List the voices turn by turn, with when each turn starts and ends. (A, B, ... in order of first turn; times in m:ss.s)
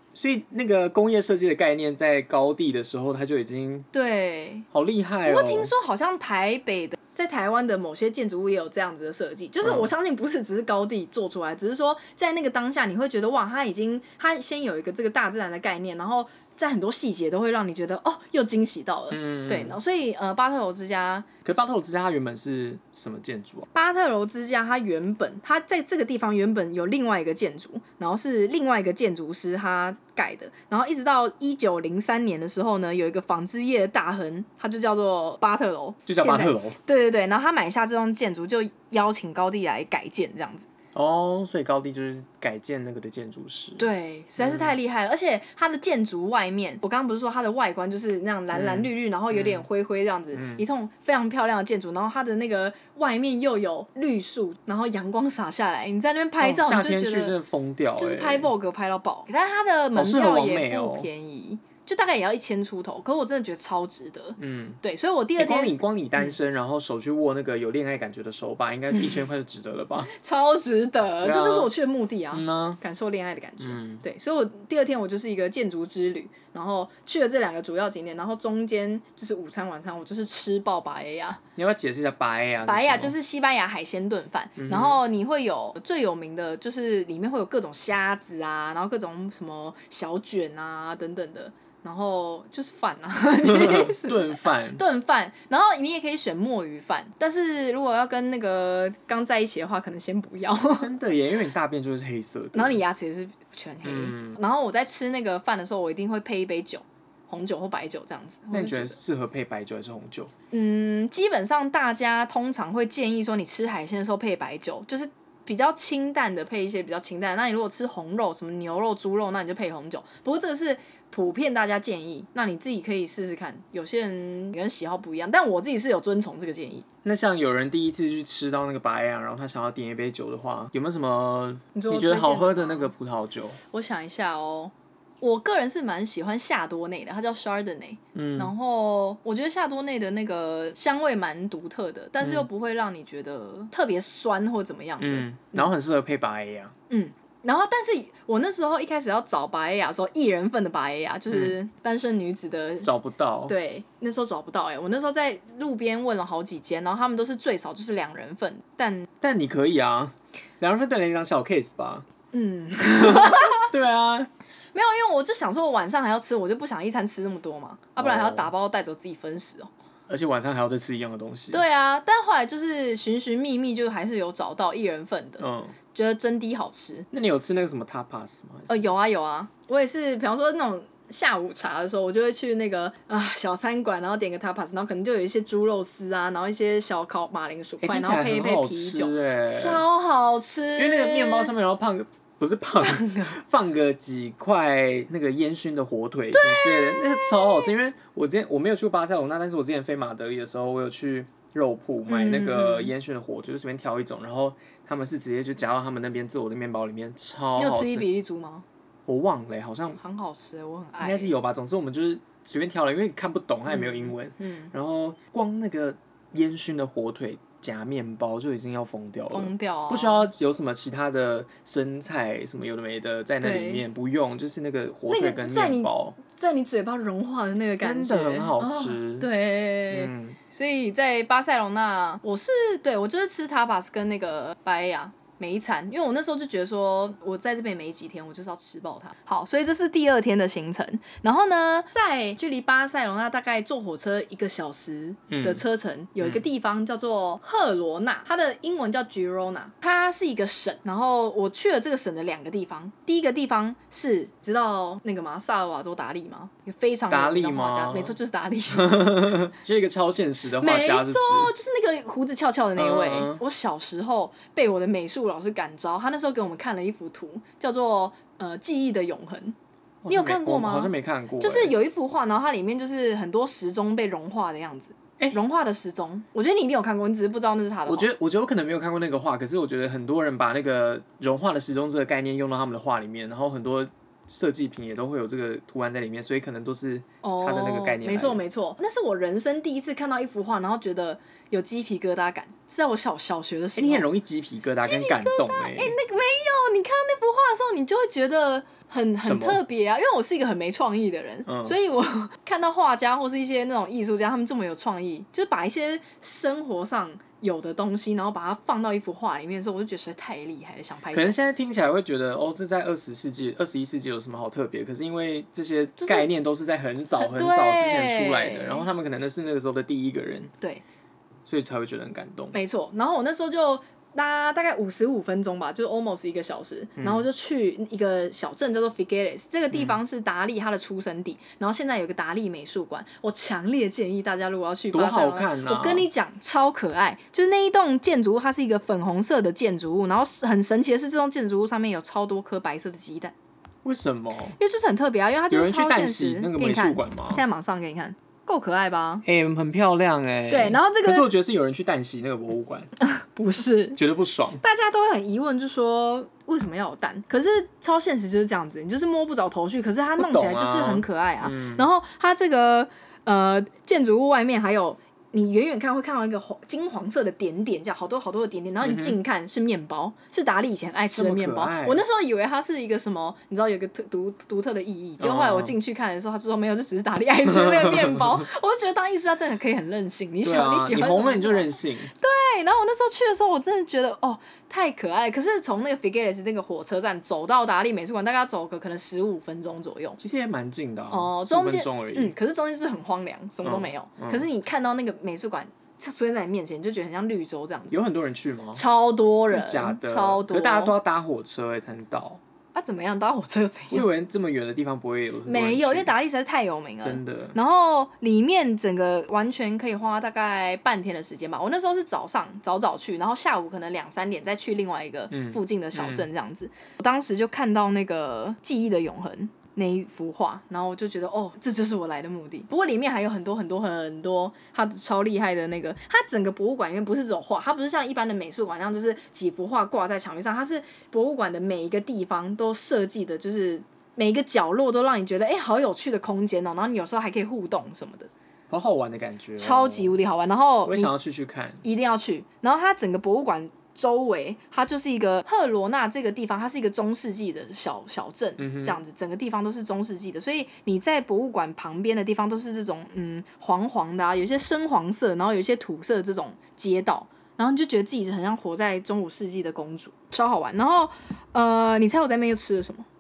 0:00.2-0:03.9 A
0:03.9-0:04.7 B
0:04.7-0:05.7 A
0:05.2-0:21.3 B
0:09.6-0:09.9 A
0:19.1-0:19.8 A
0:21.4-0:23.7 A
0:23.7-0:40.7 B
0:36.1-0:36.8 A
0:40.9-0:43.9 A
0:43.8-0:57.4 B
0:44.4-0:44.7 A
0:48.5-0:49.6 A
0:50.3-0:50.6 A
0:56.4-0:58.5 A
0:58.0-1:05.8 B
1:00.0-1:01.1 A
1:04.4-1:04.8 A
1:05.4-1:10.1 A
1:10.1-1:21.4 B
1:11.2-1:11.7 A
1:12.3-1:12.8 A
1:13.6-1:14.0 A
1:21.6-1:23.2 A
1:22.6-1:40.9 B
1:24.6-1:25.0 A
1:33.4-1:34.8 A
1:40.8-1:42.8 A
1:42.6-1:49.0 B
1:43.8-1:44.4 A
1:48.5-1:50.3 A
1:50.5-2:06.9 B
2:07.0-2:13.6 A
2:11.7-2:12.9 B
2:13.7-2:25.7 B
2:18.2-2:18.5 A
2:25.0-2:26.7 A
2:26.9-2:39.1 B
2:32.8-2:33.6 A
2:39.2-2:42.1 A
2:42.3-2:43.7 B
2:43.0-2:44.3 A
2:44.7-2:49.7 B
2:48.0-2:48.5 A
2:50.1-2:51.6 A
2:51.5-2:57.1 B
2:55.4-2:55.8 A
2:57.1-2:58.9 A
2:58.7-3:11.5 B
3:07.8-3:09.8 A
3:10.8-3:28.1 A
3:12.8-3:13.4 B
3:16.3-3:17.7 B
3:22.1-3:22.9 B
3:27.6-3:28.6 B
3:29.1-3:30.0 A
3:30.0-3:31.3 B
3:31.0-3:46.2 A
3:33.7-3:34.7 B
3:39.3-3:40.3 B
3:43.4-3:43.8 B
3:45.1-4:19.3 B
3:47.8-3:49.3 A
3:49.9-3:50.4 A
4:05.3-4:05.6 A
4:17.1-4:18.2 A
4:18.7-4:21.5 A
4:20.6-4:29.6 B
4:22.8-4:23.4 A
4:30.0-4:31.8 A
4:30.1-4:38.1 B
4:37.9-4:48.4 A
4:47.2-4:54.1 B
4:53.8-4:56.0 A
4:54.8-5:11.4 B
4:59.2-4:59.6 A
5:01.5-5:01.8 A
5:11.1-5:20.5 A
5:16.0-5:16.3 B
5:17.2-5:18.9 B
5:21.5-5:22.6 A
5:22.5-5:43.3 B
5:27.0-5:27.3 A
5:29.7-5:30.0 A
5:34.9-5:36.1 A
5:43.8-5:44.6 A
5:44.6-5:49.2 B
5:45.5-5:47.4 A
5:49.2-5:52.9 A
5:50.5-5:51.3 B
5:53.0-5:54.0 B
5:54.0-5:54.6 A
5:54.6-6:30.2 B
6:00.2-6:01.9 A
6:08.8-6:09.2 A
6:11.1-6:12.0 A
6:15.2-6:15.8 A
6:17.5-6:18.4 A
6:20.4-6:22.1 A
6:30.2-6:32.4 A
6:31.1-6:38.0 B
6:33.6-6:34.5 A
6:37.9-6:38.8 A
6:38.7-6:41.0 B
6:39.5-6:42.4 A
6:42.8-6:44.1 B
6:43.9-6:46.1 A
6:45.5-7:18.3 B
6:47.0-6:47.6 A
6:55.3-6:56.3 A
7:18.7-7:20.2 A
7:19.6-7:21.1 B
7:20.8-7:21.8 A
7:21.8-7:43.1 B
7:28.6-7:29.0 A